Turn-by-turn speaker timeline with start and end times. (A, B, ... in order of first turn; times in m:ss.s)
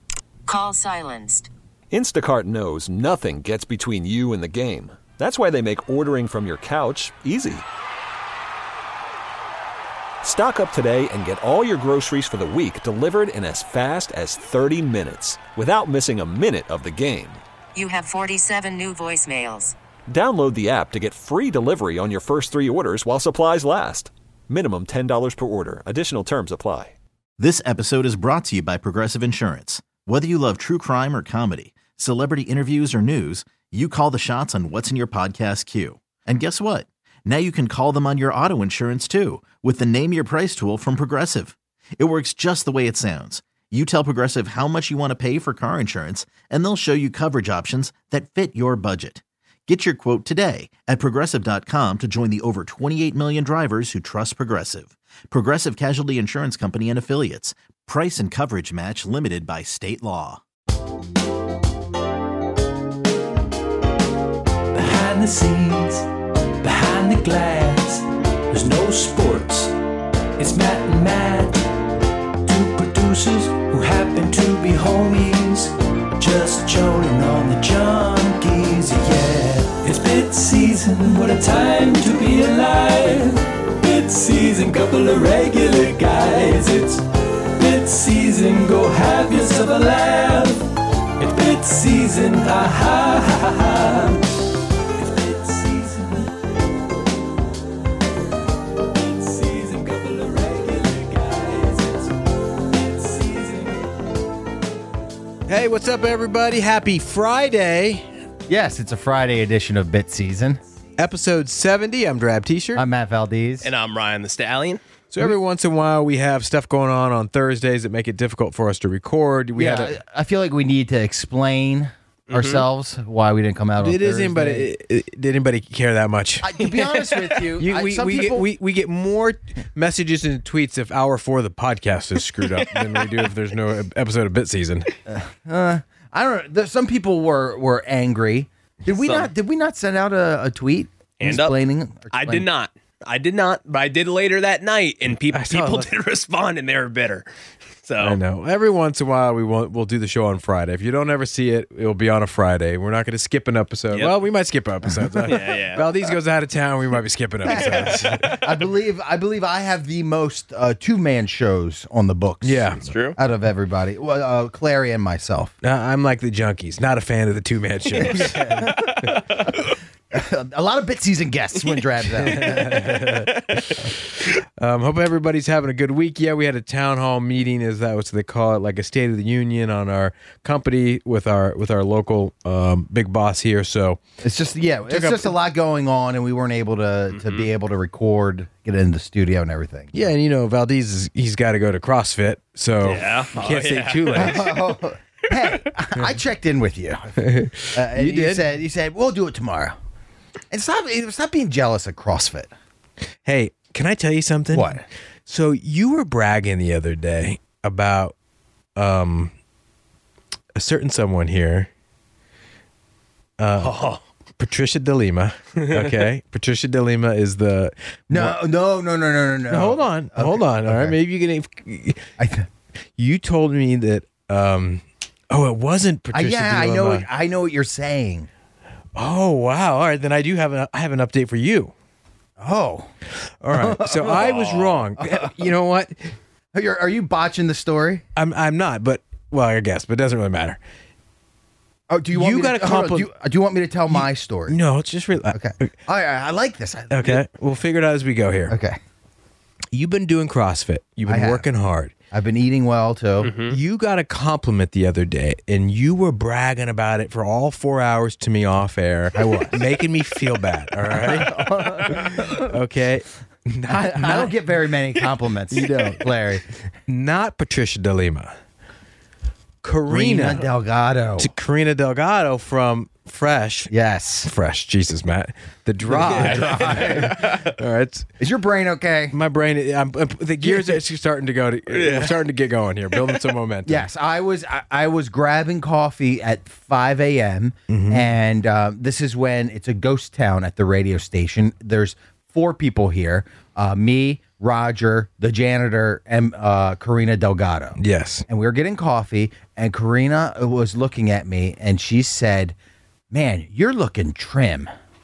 0:00.5-0:01.5 A
0:01.9-0:07.6 B
0:10.2-0:17.4 B
0:17.8-0:19.8 A
0:20.1-0:27.0 B
0:27.4-1:00.4 C
1:04.7-1:06.0 D
1:06.6-1:09.7 D
1:10.4-1:11.7 D
1:12.4-1:34.3 D
1:35.0-1:36.3 D
1:39.0-1:43.8 D
1:45.5-1:48.1 E
1:48.5-1:50.6 F
1:51.0-1:52.8 E
1:52.8-1:53.7 F
1:53.6-1:54.8 G
1:55.1-2:00.0 E
1:59.6-2:04.7 F
2:02.3-2:02.6 G
2:03.8-2:06.6 E
2:06.4-2:08.5 F
2:06.7-2:07.2 G
2:07.6-2:14.9 E
2:15.1-2:22.5 F
2:18.9-2:19.3 G
2:21.2-2:21.6 G
2:22.1-2:27.3 G
2:25.3-2:25.9 E
2:27.8-2:28.2 G
2:28.0-2:38.4 E
2:35.2-2:35.9 G
2:37.4-2:45.6 F
2:42.4-2:42.8 E
2:42.8-2:43.2 G
2:45.6-2:49.2 E
2:48.0-2:49.6 F
2:50.1-2:53.2 F
2:52.2-3:04.0 E
3:04.2-3:09.9 F
3:04.9-3:05.3 E
3:07.1-3:07.4 G
3:09.9-3:14.5 E
3:12.8-3:14.5 G
3:14.1-3:19.8 F
3:17.2-3:18.4 E
3:20.5-3:22.5 F
3:23.2-3:28.2 E
3:24.5-3:24.8 F
3:28.8-3:29.3 E
3:30.6-3:31.7 E
3:33.4-3:33.8 E
3:33.6-3:34.0 G
3:34.4-3:38.4 E
3:38.1-3:41.0 F
3:39.5-3:42.1 E
3:42.2-3:42.5 F
3:43.0-3:47.1 E
3:46.1-3:48.3 F
3:49.0-3:51.7 E
3:52.4-3:52.9 F
3:53.4-3:56.1 E
3:53.5-3:55.5 F
3:54.1-3:54.7 G
3:56.5-3:58.0 F
3:58.2-4:00.6 E
4:01.9-4:04.6 F
4:02.1-4:03.1 E
4:03.9-4:05.7 E
4:05.3-4:07.2 F
4:06.9-4:08.6 E
4:08.5-4:08.8 F
4:09.7-4:11.9 E
4:11.1-4:11.5 F
4:12.1-4:13.3 F
4:13.2-4:13.6 G
4:13.5-4:24.3 E
4:19.1-4:19.6 F
4:20.9-4:22.5 F
4:23.7-4:26.4 F
4:25.5-4:26.0 E
4:26.9-4:28.3 E
4:29.6-4:30.5 E
4:29.9-4:31.3 F
4:31.2-4:33.7 E
4:33.7-4:34.3 F
4:34.2-4:38.1 E
4:35.9-4:37.2 F
4:36.1-4:37.5 G
4:38.2-4:39.1 F
4:39.1-4:43.9 E
4:40.4-4:40.8 F
4:41.7-4:42.1 G
4:43.7-5:02.6 F
4:47.7-4:48.1 E
4:57.8-4:58.2 E
5:03.1-5:04.7 F